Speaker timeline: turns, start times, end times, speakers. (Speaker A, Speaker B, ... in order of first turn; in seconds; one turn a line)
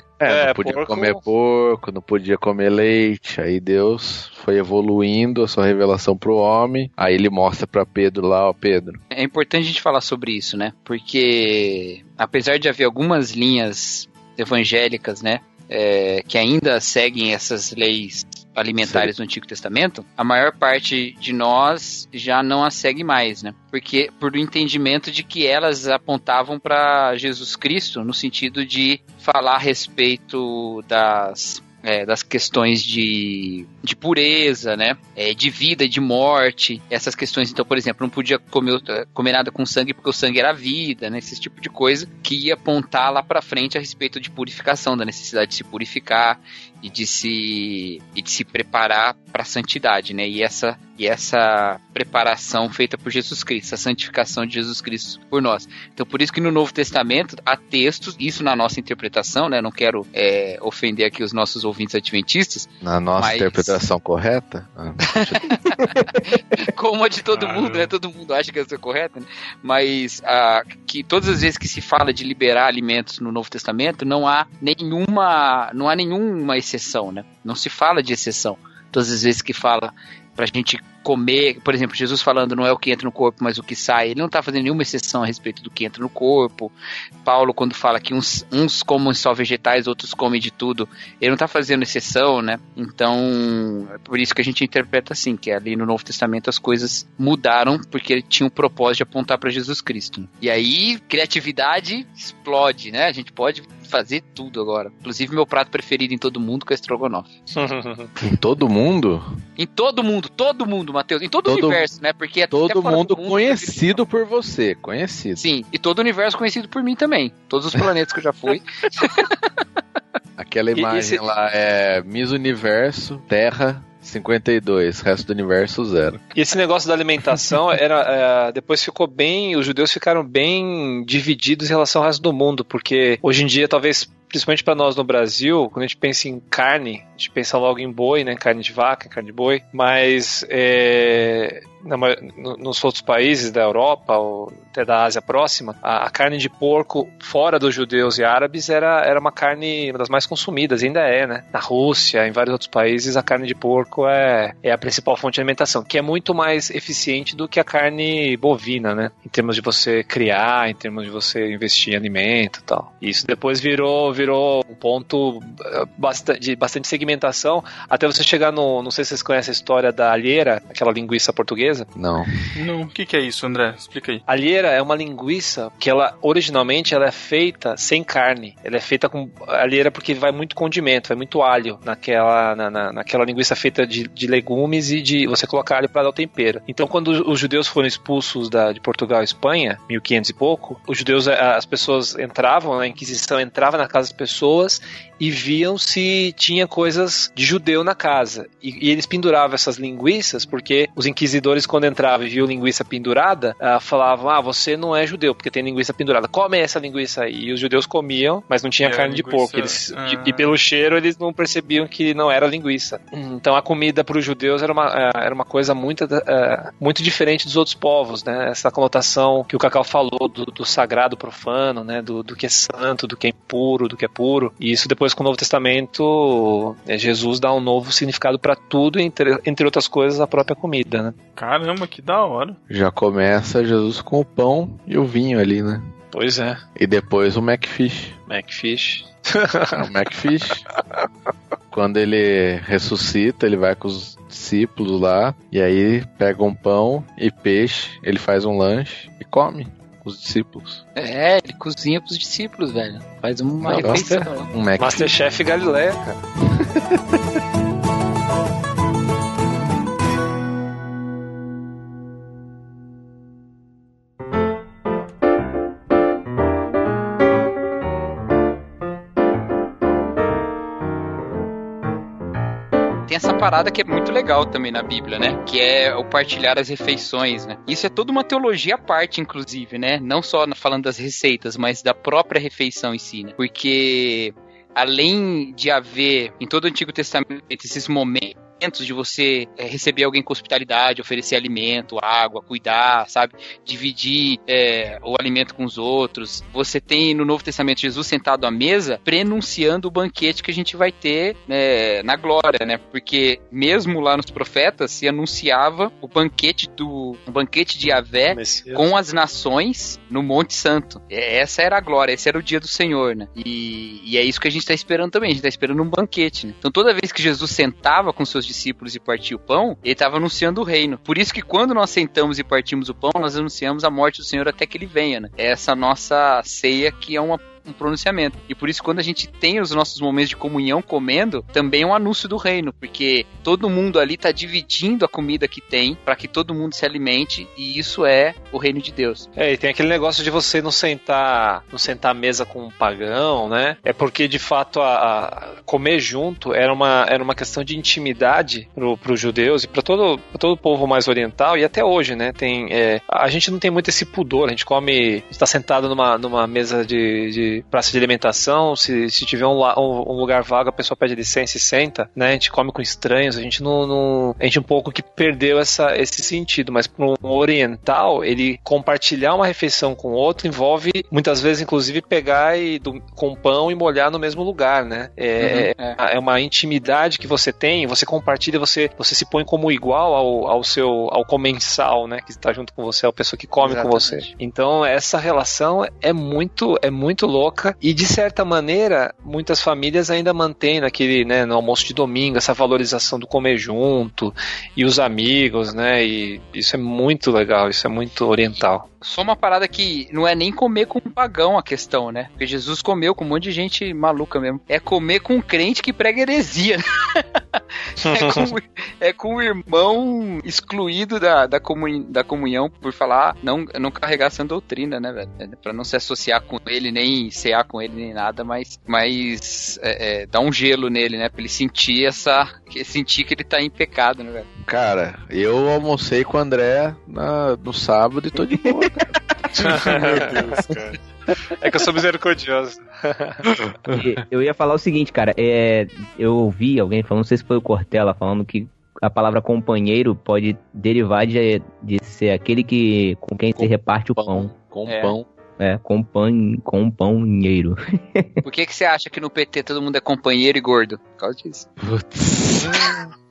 Speaker A: 0.2-9.0
Speaker B: 0.3-1.2
Speaker C: 9.1-63.8
Speaker A: 18.8-19.1
Speaker A: 62.8-65.7
Speaker C: 65.5-66.0
Speaker C: 66.5-86.7
Speaker D: 67.3-67.9
Speaker C: 87.2-107.3
Speaker B: 107.5-108.1
Speaker A: 108.2-109.4
Speaker C: 109.6-114.0
Speaker A: 111.4-111.8
Speaker A: 112.5-115.4
Speaker C: 115.4-119.3
Speaker A: 120.4-126.2
Speaker B: 120.7-121.2
Speaker B: 126.3-171.9
Speaker A: 171.9-172.3
Speaker D: 172.6-174.2
Speaker B: 174.3-231.2
Speaker D: 208.8-210.5
Speaker D: 231.4-232.6
Speaker A: 232.7-235.9
Speaker B: 236.1-236.6
Speaker A: 236.8-238.2
Speaker B: 238.3-239.9
Speaker A: 239.8-240.7
Speaker A: 241.7-250.8
Speaker C: 251.0-254.5
Speaker A: 253.6-255.2
Speaker B: 253.7-256.2
Speaker C: 273.1-339.3
Speaker B: 308.3-308.9
Speaker B: 339.4-398.9
Speaker C: 375.4-376.0
Speaker C: 383.6-384.3
Speaker C: 399.0-407.2
Speaker B: 408.0-408.5
Speaker C: 408.0-424.5
Speaker A: 424.7-430.3
Speaker E: 428.5-428.9
Speaker B: 429.6-430.3
Speaker D: 429.8-431.0
Speaker B: 431.6-433.4
Speaker A: 433.5-434.1
Speaker E: 433.9-444.5
Speaker A: 443.6-445.3
Speaker C: 444.9-445.2
Speaker E: 445.6-448.4
Speaker C: 448.4-451.7
Speaker A: 451.8-453.1